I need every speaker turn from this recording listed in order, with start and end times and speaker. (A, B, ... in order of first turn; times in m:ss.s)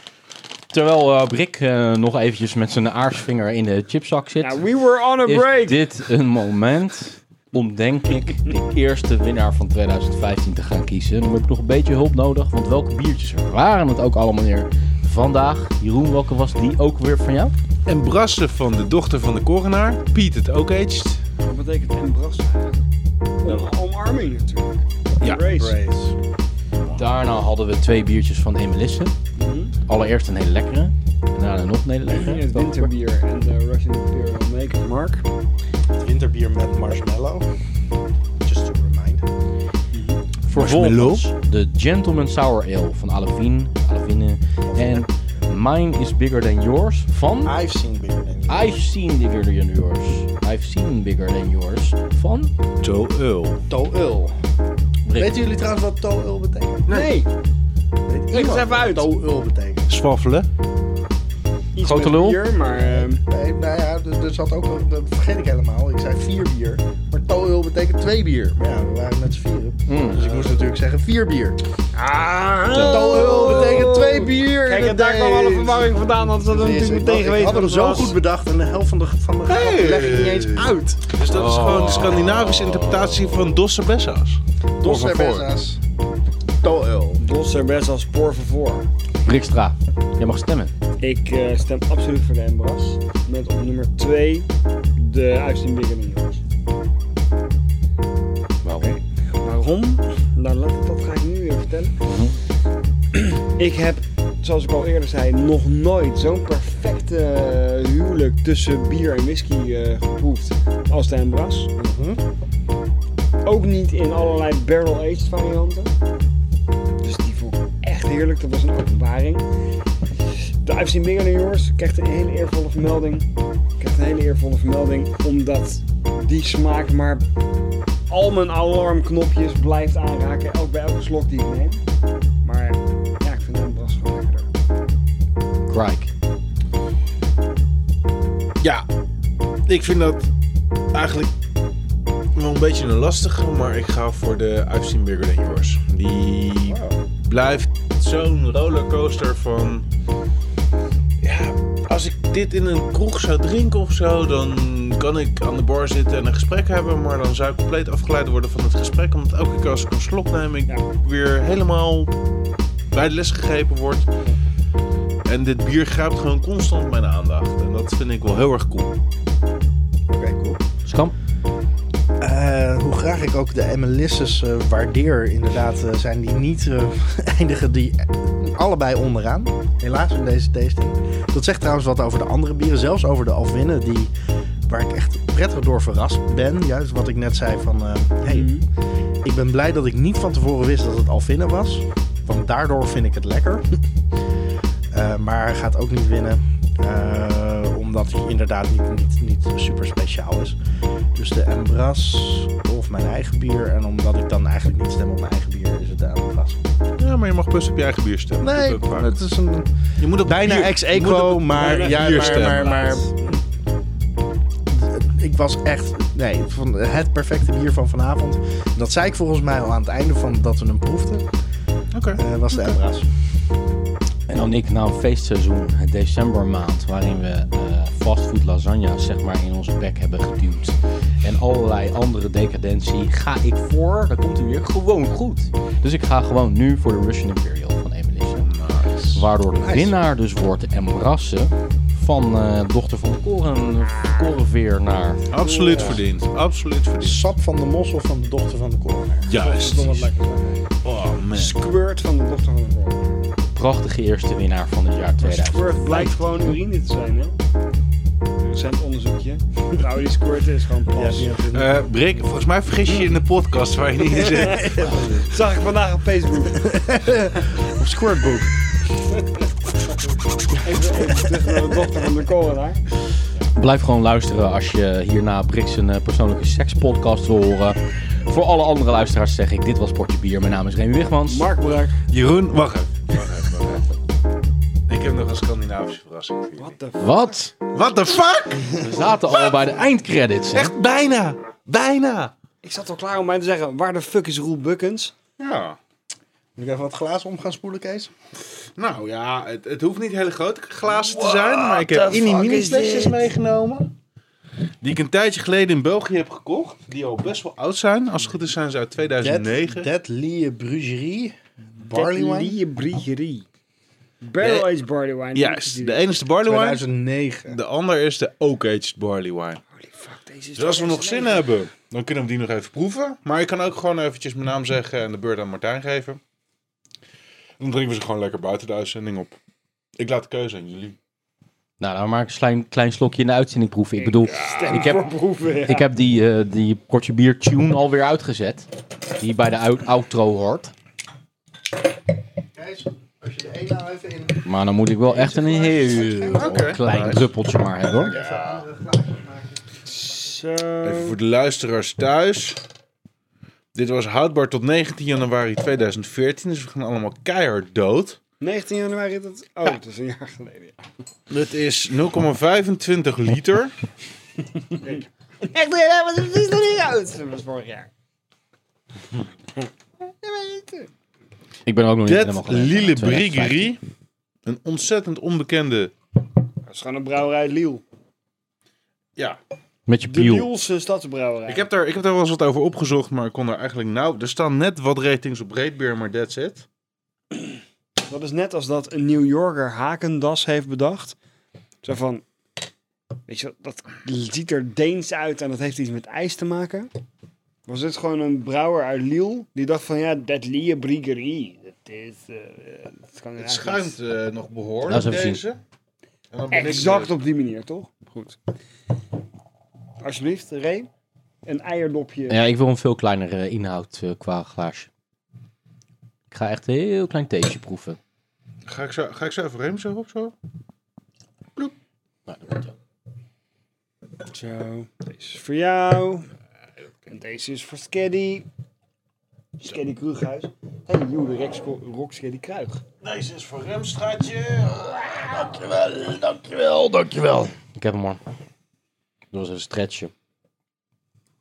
0:00.7-0:04.6 A
0:04.4-0:05.9 B
0:05.2-0:17.5 A
0:17.8-0:21.2 C
0:21.4-0:22.8 B
0:23.4-0:25.8 B
0:25.3-0:26.2 D
0:26.7-0:27.0 C
0:26.9-0:29.1 A
0:29.4-0:29.7 B
0:29.9-0:32.9 A
0:32.1-0:35.2 B
0:36.0-0:37.5 D
0:38.4-0:39.3 D
0:39.9-0:40.2 B
0:40.5-0:41.3 C
0:40.5-0:47.6 A
0:44.7-0:45.0 D
0:47.4-0:48.8 D
0:48.5-0:52.5 A
0:52.8-0:53.6 C
0:53.7-0:54.3 D
0:55.1-0:55.4 A
0:55.1-0:56.9 D
0:56.9-0:57.1 C
0:56.9-0:57.3 B
0:58.1-0:59.9 D
0:58.3-0:59.1 B
0:59.9-1:00.5 C
1:01.7-1:03.2 B
1:01.8-1:02.4 A
1:02.6-1:11.6 D
1:09.9-1:10.2 A
1:10.2-1:10.6 C
1:11.9-1:18.1 B
1:12.8-1:13.9 C
1:12.8-1:21.1 D
1:19.5-1:25.4 C
1:21.3-1:23.4 A
1:24.8-1:25.8 D
1:26.6-1:27.2 D
1:27.2-1:28.9 B
1:29.2-1:30.7 A
1:31.0-1:36.4 B
1:38.6-1:39.0 A
1:38.8-1:42.0 B
1:42.0-1:42.4 A
1:43.1-1:51.7 B
1:51.8-1:52.2 D
1:53.4-1:55.9 B
1:57.0-1:59.4 B
2:00.2-2:03.3 B
2:03.8-2:07.3 B
2:08.1-2:11.8 B
2:12.4-2:14.5 B
2:15.7-2:16.1 A
2:18.6-2:18.8 C
2:19.6-2:20.3 C
2:20.9-2:21.3 C
2:22.3-2:29.8 C
2:26.7-2:27.0 D
2:31.2-2:42.1 C
2:42.9-2:44.1 C
2:45.2-2:48.9 C
2:50.1-2:50.6 D
2:50.8-2:51.1 A
2:52.2-3:04.1 D
3:04.7-3:08.5 D
3:08.3-3:08.6 B
3:09.2-3:13.8 D
3:14.9-3:20.6 D
3:21.1-3:26.7 D
3:27.0-3:29.2 C
3:28.4-3:33.1 D
3:30.0-3:33.0 C
3:31.5-3:33.4 B
3:34.7-3:41.2 D
3:41.9-3:42.7 C
3:42.2-3:43.1 D
3:44.3-3:58.5 A
3:58.4-3:59.3 C
3:59.1-4:05.3 A
3:59.6-4:00.0 D
4:05.3-4:07.2 C
4:05.3-4:06.0 B
4:07.0-4:09.3 D
4:09.2-4:10.1 C
4:09.3-4:10.7 B
4:10.8-4:11.6 C
4:11.3-4:13.2 B
4:13.5-4:16.2 A
4:15.2-4:17.4 B
4:18.4-4:21.3 B
4:20.9-4:21.8 D
4:21.5-4:25.3 C
4:24.2-4:24.7 B
4:24.3-4:25.3 D
4:25.3-4:26.7 B
4:26.6-4:28.6 D
4:30.6-4:32.8 B
4:33.5-4:41.5 A
4:41.3-4:42.0 B
4:42.1-4:43.9 C
4:44.9-4:46.8 C
4:46.6-4:47.4 B
4:47.0-4:47.5 A
4:47.7-4:49.8 C
4:48.8-4:50.7 A
4:50.5-4:52.3 C
4:52.6-4:55.1 B
4:55.4-4:55.8 C
4:56.6-4:58.1 D
4:58.8-5:03.9 C
5:01.0-5:03.3 B
5:04.8-5:09.9 C
5:09.2-5:12.6 D
5:11.9-5:13.4 B
5:14.2-5:16.1 B
5:14.4-5:14.7 C
5:15.3-5:16.8 C
5:16.4-5:17.6 D
5:17.5-5:19.6 C
5:19.8-5:21.5 B
5:20.6-5:26.2 C
5:27.6-5:29.4 C
5:30.0-5:31.0 C
5:31.8-5:35.1 A
5:34.0-5:35.9 B
5:35.6-5:40.7 A
5:42.5-5:44.5 D
5:44.4-5:48.2 A
5:45.0-5:46.8 D
5:46.3-5:47.3 C
5:47.9-5:49.6 D
5:48.1-5:48.6 C
5:49.9-5:51.2 B
5:50.8-5:52.6 C
5:53.7-5:58.2 C
5:58.4-6:00.8 B
6:01.3-6:03.7 C
6:04.7-6:07.9 B
6:10.2-6:10.9 B
6:11.6-6:13.8 A
6:12.0-6:13.8 C
6:14.4-6:15.9 C
6:16.7-6:17.8 B
6:19.9-6:20.5 A
6:20.1-6:21.7 B
6:21.5-6:26.6 C
6:28.0-6:31.1 B
6:31.8-6:32.2 B
6:33.3-6:36.9 B
6:37.7-6:44.0 B
6:43.4-6:45.6 C
6:44.8-6:45.4 A
6:46.3-6:47.1 C
6:46.5-6:48.4 B
6:50.0-6:50.9 B
6:51.4-6:52.4 B
6:52.3-6:54.9 A
6:56.3-6:58.0 A
6:58.6-7:00.3 C
7:02.3-7:02.7 A
7:04.3-7:06.3 B
7:07.1-7:08.5 B
7:09.6-7:12.8 B
7:13.0-7:15.7 C
7:15.6-7:18.2 A
7:19.3-7:20.1 A